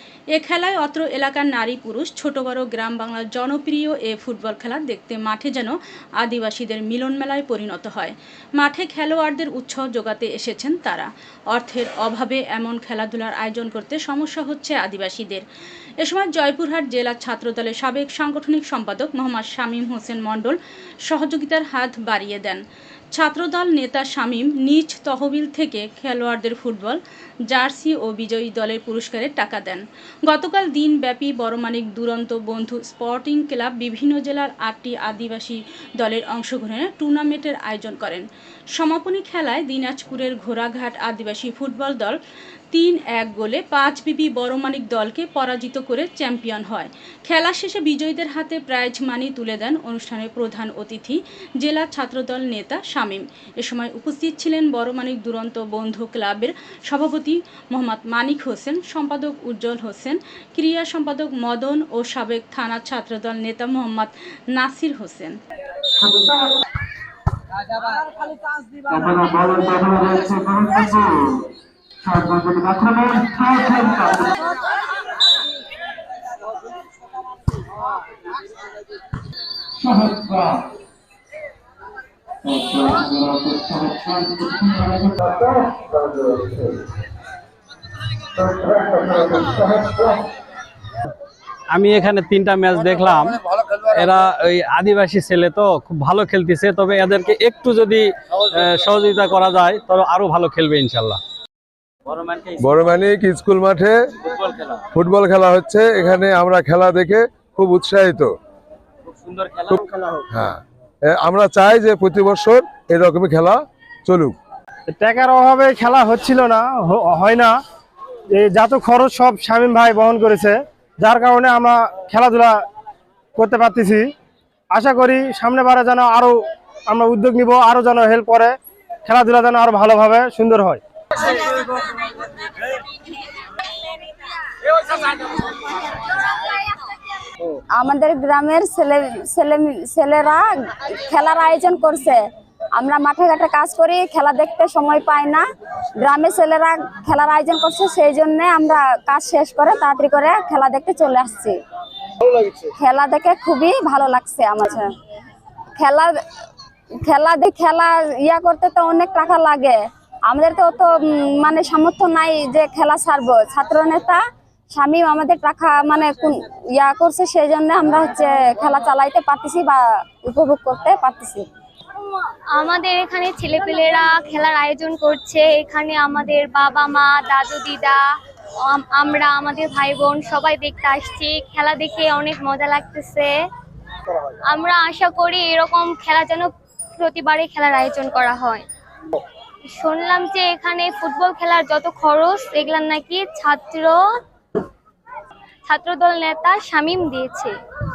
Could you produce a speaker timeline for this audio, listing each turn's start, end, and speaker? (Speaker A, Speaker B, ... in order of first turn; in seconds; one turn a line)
Speaker A: 0.3-15.4
Speaker A: 16.0-22.6
Speaker A: 23.1-42.2
Speaker A: 42.7-65.4
Speaker B: 68.9-71.0
Speaker B: 72.1-74.0
Speaker C: 82.7-83.0
Speaker B: 83.4-84.9
Speaker C: 85.3-86.7
Speaker C: 88.5-90.2
Speaker B: 91.7-101.2
Speaker B: 102.1-102.6
Speaker C: 102.6-104.0
Speaker C: 104.9-108.3
Speaker B: 109.3-109.8
Speaker C: 110.3-114.3
Speaker D: 114.9-117.6
Speaker D: 118.3-122.6
Speaker D: 123.4-124.1
Speaker D: 124.7-126.4
Speaker D: 126.9-128.5
Speaker D: 129.1-130.8
Speaker E: 137.8-145.4
Speaker E: 146.0-151.6
Speaker E: 152.5-154.9
Speaker E: 155.8-156.2
Speaker E: 157.0-164.2
Speaker E: 164.7-171.4
Speaker F: 172.5-178.0
Speaker F: 178.6-183.3
Speaker F: 184.4-188.6
Speaker F: 189.6-194.2
Speaker F: 195.7-197.6